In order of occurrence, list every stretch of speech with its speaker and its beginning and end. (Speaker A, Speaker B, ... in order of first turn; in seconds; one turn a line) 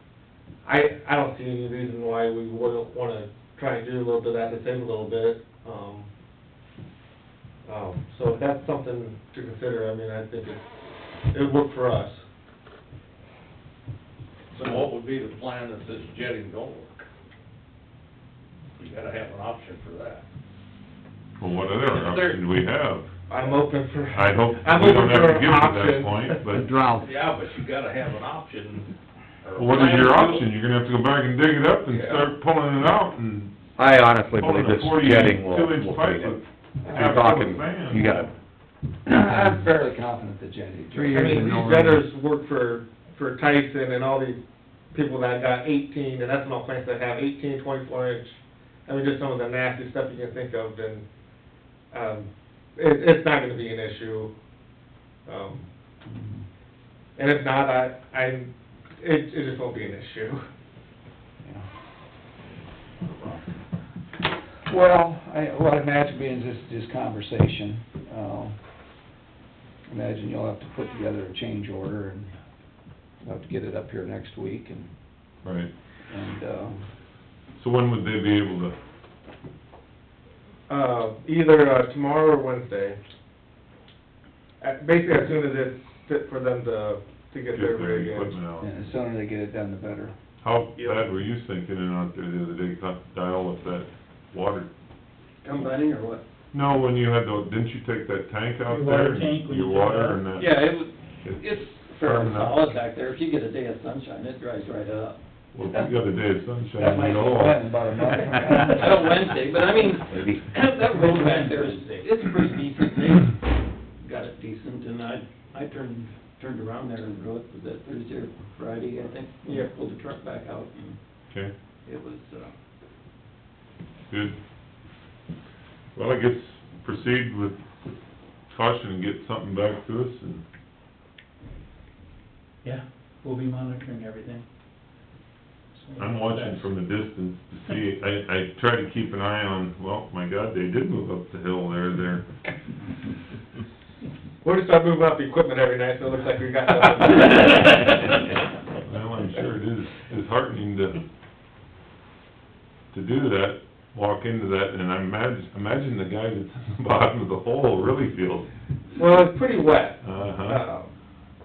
Speaker A: 0.7-6.1
Speaker A: 7.7-10.7
Speaker A: 11.3-12.2
Speaker B: 14.5-17.1
Speaker B: 18.8-20.2
Speaker C: 21.4-23.1
Speaker B: 21.7-22.4
Speaker A: 23.3-26.2
Speaker B: 23.3-23.7
Speaker C: 24.1-26.7
Speaker B: 26.6-30.4
Speaker C: 29.6-33.5
Speaker D: 33.8-36.4
Speaker C: 34.4-38.2
Speaker D: 36.9-38.3
Speaker E: 39.1-42.0
Speaker A: 41.0-44.4
Speaker A: 44.9-51.1
Speaker A: 51.9-54.3
Speaker A: 55.3-55.7
Speaker A: 57.2-60.5
Speaker E: 64.7-68.5
Speaker E: 69.9-72.3
Speaker E: 73.2-74.9
Speaker C: 75.4-75.7
Speaker E: 76.1-76.8
Speaker C: 77.6-78.8
Speaker A: 80.7-83.0
Speaker A: 84.6-88.4
Speaker C: 87.5-88.7
Speaker E: 88.6-90.1
Speaker C: 90.4-94.7
Speaker A: 90.8-91.0
Speaker F: 95.4-96.2
Speaker C: 96.5-100.6
Speaker G: 98.7-100.2
Speaker F: 100.3-105.2
Speaker C: 102.0-102.7
Speaker C: 105.5-107.6
Speaker E: 106.8-109.3
Speaker F: 108.6-113.4
Speaker G: 110.9-112.0
Speaker F: 114.0-121.0
Speaker F: 121.8-122.5
Speaker C: 124.1-124.4
Speaker C: 126.0-127.6
Speaker C: 128.5-130.4
Speaker G: 132.6-134.4
Speaker G: 135.7-136.7
Speaker C: 136.0-142.2
Speaker A: 144.4-147.8
Speaker C: 148.8-151.0
Speaker C: 152.9-158.5
Speaker A: 159.0-160.9
Speaker C: 160.0-160.6